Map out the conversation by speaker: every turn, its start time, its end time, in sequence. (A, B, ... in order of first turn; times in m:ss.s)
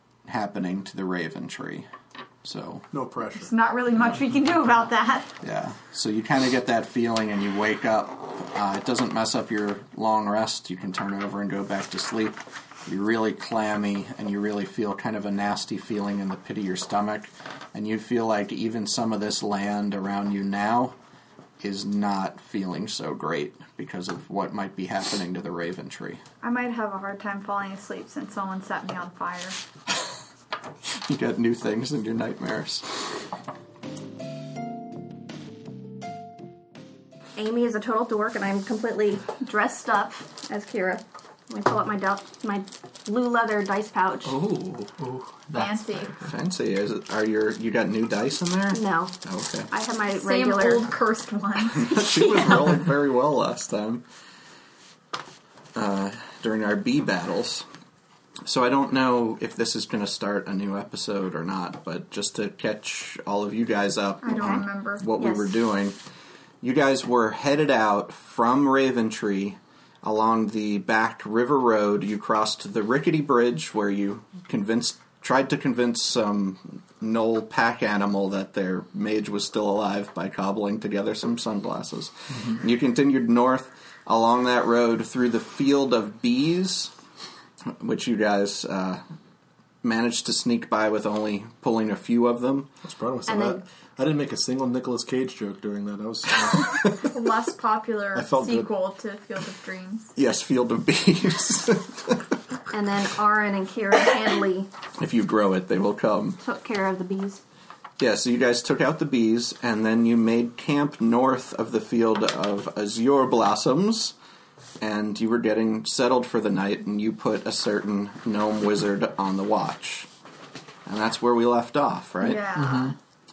0:00.2-0:01.9 A
0:02.4-0:02.9 A
0:02.9-0:03.5 B
0:03.4-0:05.3 C
0:05.4-0:21.0 A
0:21.6-0:26.2 A
0:26.4-0:29.6 C
0:30.9-0:32.9 A
0:37.4-0:44.4 D
0:44.3-0:46.1 E
0:45.6-0:46.2 C
0:46.2-0:49.7 A
0:48.7-0:49.1 D
0:49.7-0:50.9 D
0:50.1-0:52.5 C
0:51.7-0:54.0 A
0:55.8-0:57.6 A
0:58.4-1:06.0 A
1:04.2-1:05.1 C
1:05.2-1:05.5 D
1:06.6-1:26.9 A
1:27.7-1:29.0 A
1:29.8-1:32.7 A
1:32.8-1:37.0 B
1:33.3-1:33.6 D
1:36.5-1:36.9 A
1:37.0-1:40.1 C
1:38.1-1:38.7 B
1:40.2-1:42.2 A
1:42.7-1:44.7 D
1:45.0-1:46.4 A
1:46.4-1:47.4 D
1:48.0-1:54.1 A
1:54.8-2:00.1 A
2:00.9-2:02.5 A
2:02.2-2:03.0 C
2:02.6-2:03.0 E